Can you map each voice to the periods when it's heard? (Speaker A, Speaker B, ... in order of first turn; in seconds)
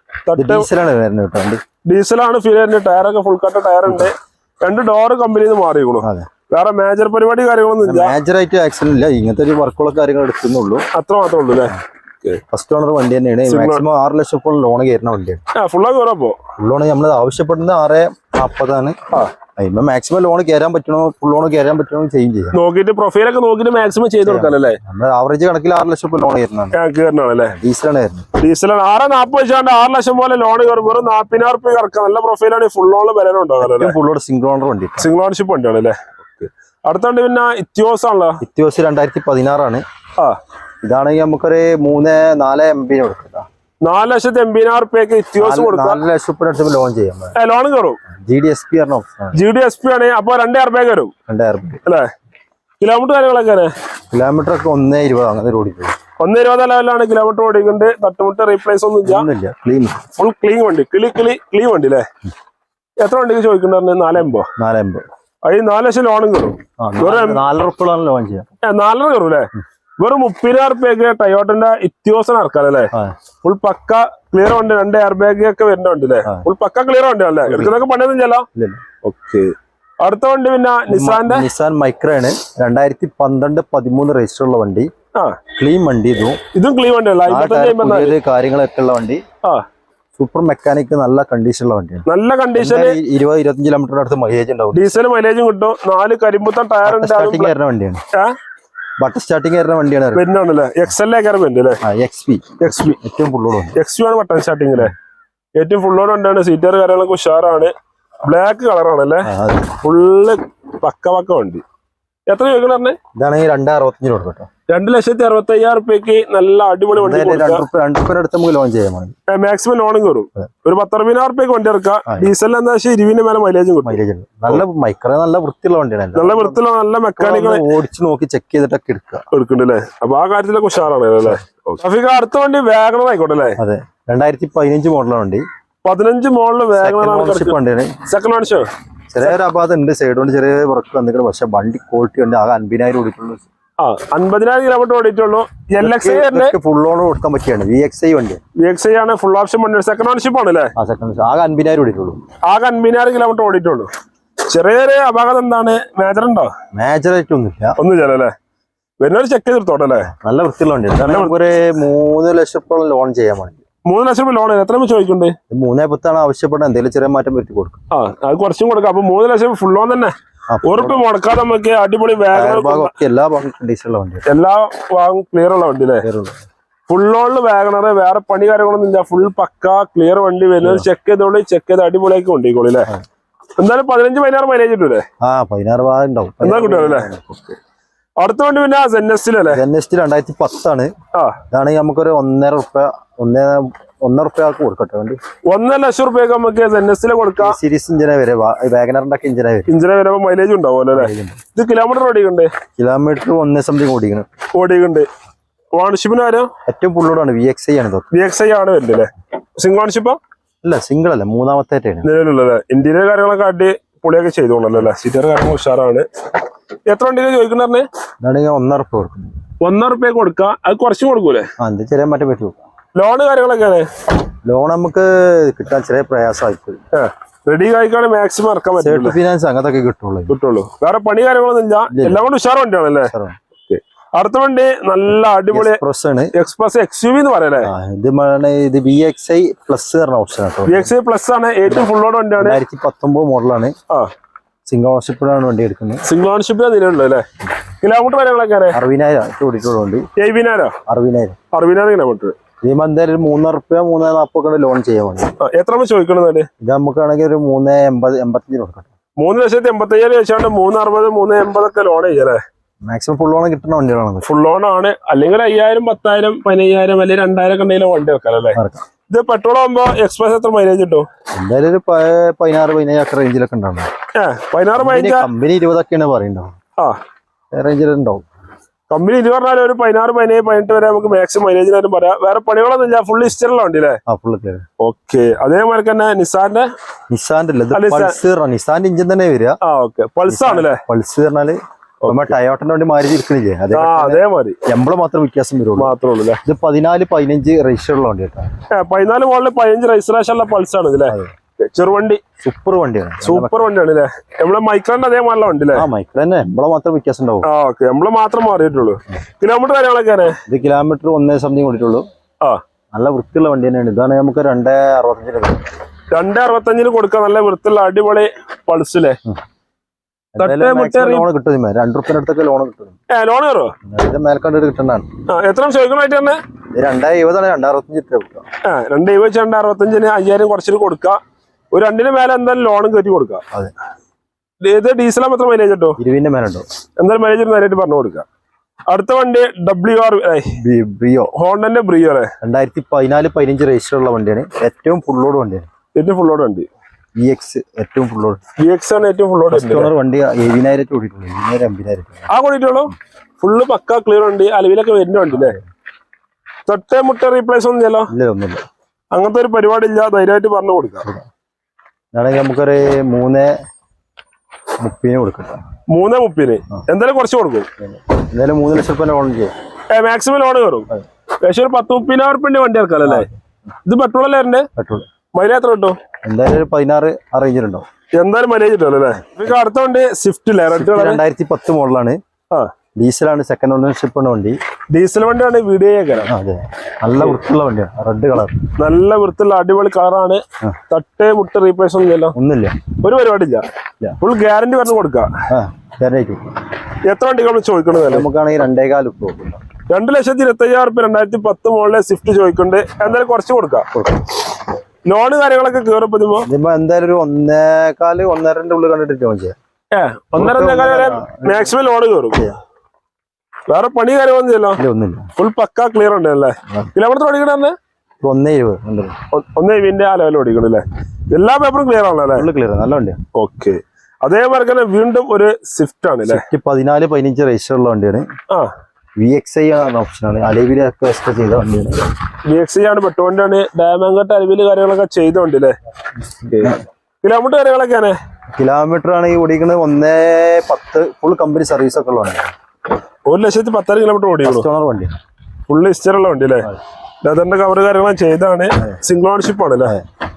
Speaker A: 0.3-0.7, 1.9-8.1, 10.9-12.4, 13.5-13.8, 15.5-16.4, 22.5-24.8, 26.7-27.6, 28.4-34.0, 35.0-38.4, 43.8-46.0, 47.4-48.0, 49.3-51.1, 52.8-53.7, 56.2-59.3, 60.2-62.1, 63.0-64.5, 65.4-67.4, 68.6-78.5, 79.0-81.5, 86.5-88.2, 92.0-93.0, 94.7-97.5, 100.1-101.8, 102.6-103.0, 103.7-104.9, 105.5-107.7, 108.2-109.3, 109.8-111.6, 112.3-113.0, 114.7-117.6, 119.3-124.6, 126.1-127.7, 129.3-133.6, 135.8-138.7, 143.8-146.5, 148.6-150.7, 152.4-153.9, 154.5-156.5, 157.8-158.3, 159.0-160.1, 161.0-161.3, 163.8-165.3, 167.9-172.9, 174.2-176.0, 176.9-182.9, 183.6-185.0, 186.4-187.1, 188.2-189.6, 191.1-191.4, 195.5-197.6, 199.7-202.5, 204.6-205.1, 205.8-206.5, 208.1-210.2, 212.0-216.1, 216.9-217.8, 219.6-221.5, 222.9-223.9, 226.9-229.2, 230.3-233.1, 233.7-235.8, 236.3-237.7, 240.7-242.6, 246.0-247.2, 247.8-248.8, 250.2-250.7, 251.5-252.3, 255.4-256.5, 259.2-262.4, 264.2-268.6, 269.1-271.1, 274.1-275.3, 278.9-284.0, 284.8-286.7, 287.7-288.2, 289.6-290.8, 292.0-292.3, 293.7-294.6, 295.8-296.4, 298.7-302.2, 303.2-305.9, 307.4-310.4, 316.1-319.2, 320.4-321.2, 323.1-323.7, 325.3-326.4, 328.6-331.2, 331.7-333.4, 334.6-335.9, 337.0-338.2, 338.9-340.6, 341.4-342.3, 345.9-346.7, 348.6-349.9, 352.3-355.6, 356.7-358.1, 359.1-361.0, 365.9-367.7, 369.9-370.9, 371.4-373.3, 373.9-374.7, 375.3-376.0, 378.2-381.2, 384.9-386.3, 388.8-392.3, 393.0-393.6, 394.2-395.3, 397.1-398.3, 399.9-403.9, 405.1-406.5, 409.9-412.5, 413.7-414.8, 415.4-417.7, 419.3-422.5, 423.3-426.4, 432.5-435.8, 436.4-438.2, 443.3-444.7, 445.7-446.7, 447.2-449.9
Speaker B: 0.3-1.6, 6.0-6.3, 7.8-10.8, 12.5-15.4, 16.6-19.0, 19.6-22.6, 24.2-26.8, 27.6-28.3, 33.6-35.1, 38.4-39.8, 40.8-43.5, 45.4-47.4, 48.2-49.4, 51.3-51.8, 54.1-55.9, 59.0-60.0, 64.5-65.0, 66.8-68.5, 77.5-77.8, 80.9-84.9, 85.5-86.4, 87.3-89.2, 90.2-95.0, 96.8-98.0, 99.0-100.2, 101.8-103.8, 109.2-109.8, 113.2-114.5, 116.9-119.1, 123.8-126.6, 127.2-129.2, 133.6-135.4, 136.7-138.0, 139.1-143.4, 145.8-148.4, 150.8-152.2, 156.7-157.8, 160.0-163.6, 165.5-167.8, 170.5-171.0, 172.3-174.2, 176.0-176.4, 180.6-180.9, 185.2-187.6, 189.5-190.9, 191.5-195.2, 197.4-199.7, 200.9-201.4, 202.8-204.3, 206.7-208.1, 210.6-212.1, 218.2-219.3, 221.6-222.6, 224.4-226.8, 228.8-230.3, 231.9-232.2, 233.1-233.4, 235.5-236.3, 237.6-240.9, 242.4-243.7, 244.7-246.0, 248.7-250.1, 250.9-251.4, 252.6-255.3, 256.6-258.9, 262.8-264.3, 268.5-268.8, 271.4-273.9, 274.7-276.5, 277.5-278.2, 284.1-284.6, 287.1-289.6, 290.3-295.9, 296.4-298.5, 302.4-303.6, 305.7-307.5, 310.5-312.0, 312.9-315.7, 320.3-323.0, 323.9-325.1, 326.7-328.4, 336.0-336.6, 340.5-341.3, 342.4-345.7, 347.2-348.4, 349.5-352.3, 358.1-358.6, 362.1-363.6, 364.8-365.6, 367.8-369.5, 373.0-373.3, 374.8-375.1, 376.2-377.9, 380.7-382.2, 383.0-384.6, 386.2-388.7, 392.3-392.8, 395.5-396.6, 397.9-399.6, 403.9-404.2, 406.4-409.6, 410.4-411.7, 414.8-415.3, 418.2-419.1, 422.3-423.2, 426.2-428.3, 429.2-432.0, 436.3-436.8, 438.5-442.5, 444.4-445.1